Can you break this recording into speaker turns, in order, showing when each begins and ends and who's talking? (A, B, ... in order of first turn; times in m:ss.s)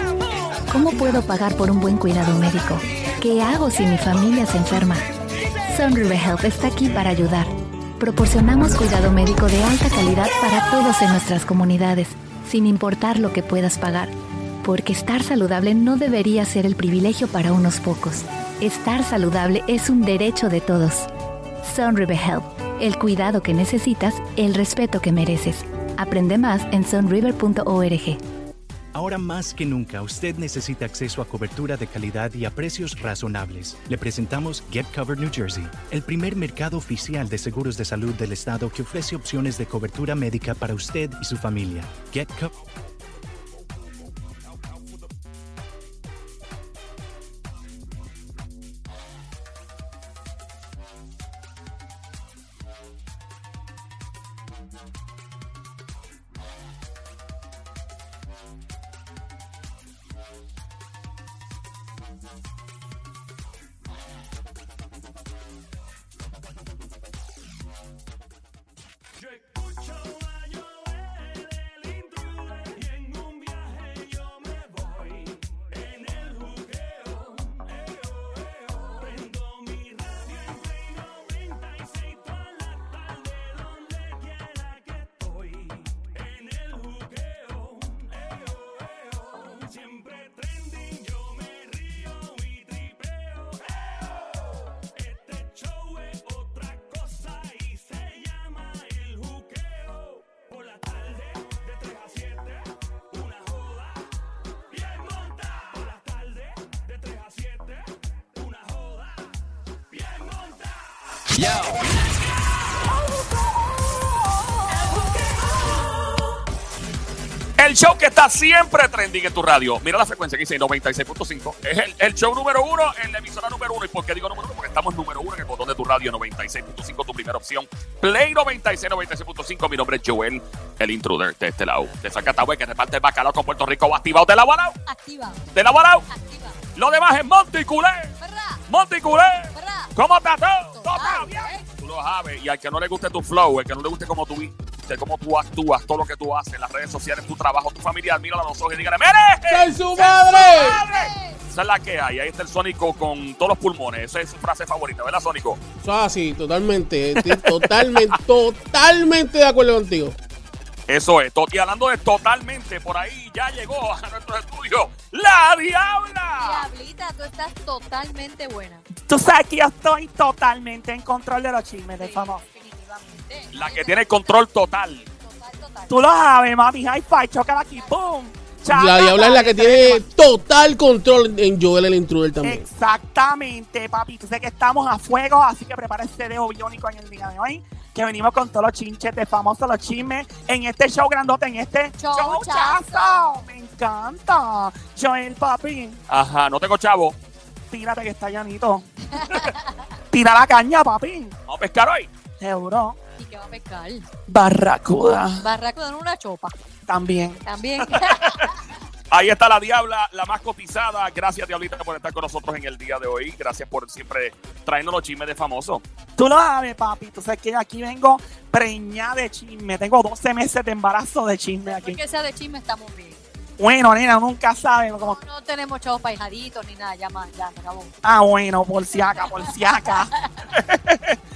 0:00.7-0:05.1 A
0:05.6-0:14.1 A
0:14.6-0:21.1 A
0:21.6-0:28.2 A
0:28.9-0:42.5 B
1:57.6-2:14.8 C
2:14.9-2:15.4 D
2:15.5-2:16.1 C
2:16.1-2:16.6 D
2:16.8-2:18.2 C
2:18.2-2:18.6 D
2:18.7-2:35.6 C
2:19.5-2:19.9 D
2:20.7-2:21.6 D
2:29.5-2:30.8 E
2:30.3-2:31.4 D
2:35.8-2:40.2 E
2:37.3-2:38.2 C
2:40.9-2:46.7 C
2:46.4-2:48.8 D
2:49.0-2:52.4 F
2:52.0-2:54.4 D
2:53.5-2:55.0 C
2:55.2-2:56.0 D
2:55.9-3:00.0 F
2:58.7-3:02.6 E
3:02.4-3:16.0 F
3:12.0-3:13.4 D
3:16.1-3:17.2 C
3:17.7-3:19.5 F
3:19.1-3:19.8 D
3:20.1-3:21.4 F
3:21.5-3:22.1 C
3:22.4-3:23.0 F
3:23.2-3:24.1 D
3:24.3-3:25.4 F
3:25.4-3:26.6 D
3:26.9-3:27.4 F
3:27.4-3:28.6 D
3:29.1-3:35.8 C
3:36.2-3:42.0 F
3:41.6-3:43.2 D
3:43.6-3:45.2 F
3:45.0-3:47.9 D
3:48.0-3:51.2 F
3:49.0-3:49.5 D
3:50.2-3:50.4 D